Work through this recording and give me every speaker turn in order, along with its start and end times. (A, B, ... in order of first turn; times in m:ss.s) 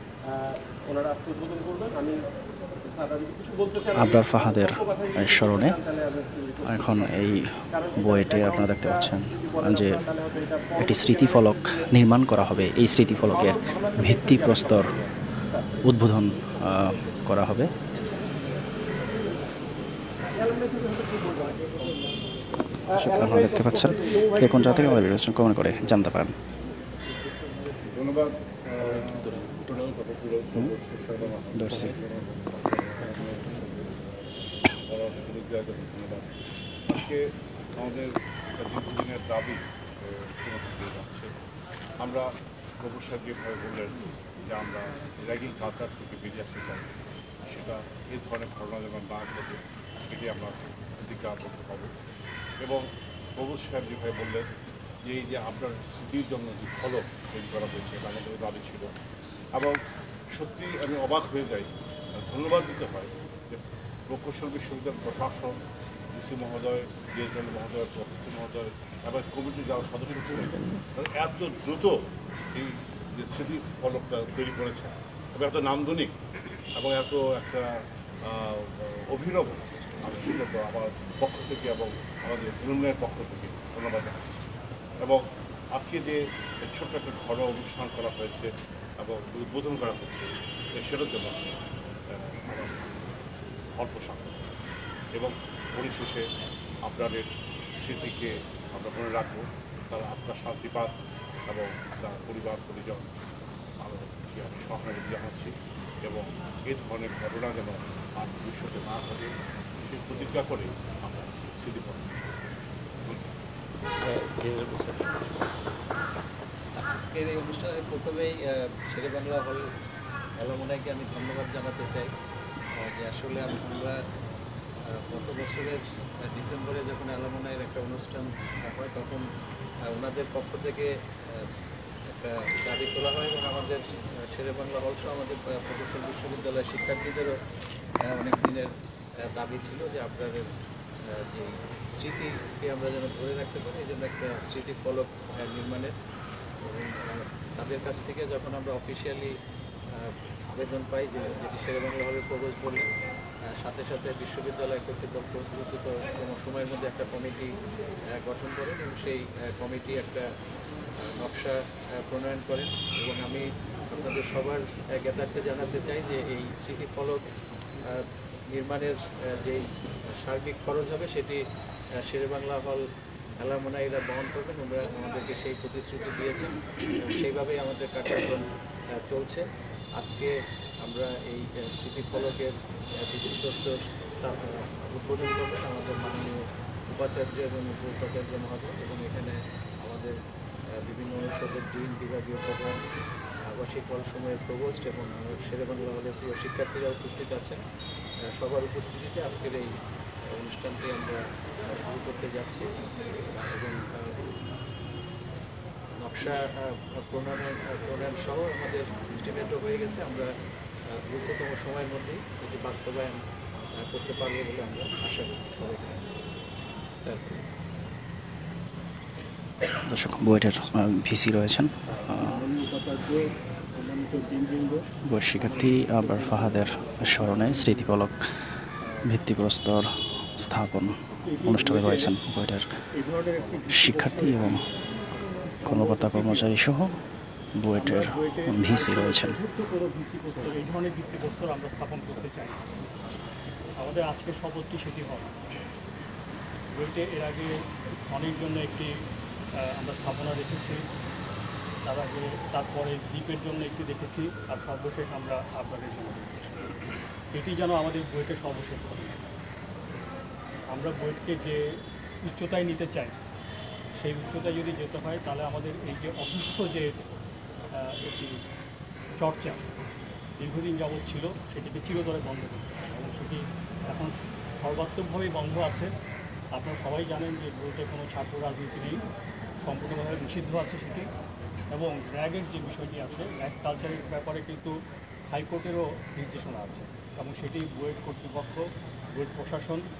0:00.3-0:02.2 A
0:02.8-0:06.8 A
0:03.9-0:05.8 B
0:06.6-0:15.0 B
0:07.7-0:11.5 A
0:13.3-0:14.9 A
0:15.8-0:17.7 B
0:20.4-0:21.8 A
0:22.9-0:26.4 B
0:23.0-0:24.6 A
0:27.8-0:36.3 C
0:28.8-0:29.6 B
0:31.5-0:32.0 B
0:36.9-0:37.2 C
0:37.7-0:41.3 C
0:42.0-0:42.3 C
0:42.8-0:46.9 C
0:47.5-0:51.9 C
0:53.4-0:54.5 C
0:55.1-0:58.9 C
1:00.3-1:05.5 C
1:06.1-1:12.0 C
1:12.5-1:16.1 C
1:16.8-1:17.7 C
1:18.2-1:24.5 C
1:25.7-1:28.5 C
1:29.0-1:31.4 C
1:32.1-1:33.1 C
1:33.8-1:34.5 C
1:35.2-1:36.2 C
1:36.8-1:37.3 C
1:37.8-1:40.9 C
1:41.5-1:43.1 C
1:43.8-1:45.5 C
1:46.0-1:49.3 C
1:49.8-1:52.4 C
1:54.0-1:55.4 D
1:56.8-1:58.4 D
1:58.9-1:59.6 D
2:00.4-2:02.1 D
2:03.0-2:04.0 D
2:05.0-2:09.2 D
2:09.9-2:11.5 D
2:12.1-2:13.8 D
2:14.3-2:17.3 D
2:18.1-2:18.7 D
2:19.3-2:20.4 D
2:21.3-2:25.9 D
2:26.6-2:29.3 D
2:30.0-2:32.9 D
2:33.6-2:37.5 D
2:38.1-2:40.2 D
2:41.2-2:47.2 D
2:47.9-2:49.6 D
2:50.2-2:51.4 D
2:52.1-2:52.8 D
2:53.4-2:58.4 D
2:59.0-2:59.4 D
3:00.0-3:00.3 D
3:00.8-3:10.1 D
3:10.8-3:12.8 D
3:13.5-3:17.6 D
3:18.4-3:19.7 D
3:20.4-3:24.2 D
3:26.0-3:30.3 D
3:30.9-3:33.2 D
3:33.8-3:36.0 D
3:37.0-3:37.4 D
3:39.9-3:42.4 B
3:42.2-3:43.2 E
3:43.8-3:44.8 E
3:45.1-3:48.2 B
3:45.5-3:46.6 E
3:47.3-3:47.7 E
3:49.1-3:49.8 B
3:50.4-3:52.6 B
3:51.2-3:52.1 E
3:53.0-3:54.6 E
3:53.7-3:54.6 B
3:55.5-3:56.5 E
3:55.6-3:56.9 B
3:57.6-3:59.4 B
3:57.8-4:02.7 E
4:03.8-4:05.3 E
4:06.7-4:07.5 E
4:08.1-4:08.9 E
4:09.6-4:10.8 E
4:11.8-4:16.5 E
4:17.3-4:19.3 E
4:20.7-4:21.6 E
4:22.2-4:23.2 E
4:24.0-4:26.9 E
4:27.8-4:28.4 E
4:29.2-4:29.6 E
4:30.4-4:35.9 E
4:36.5-4:39.0 E
4:39.6-4:41.1 E
4:41.7-4:44.7 E
4:45.3-4:48.6 E
4:49.1-4:49.8 E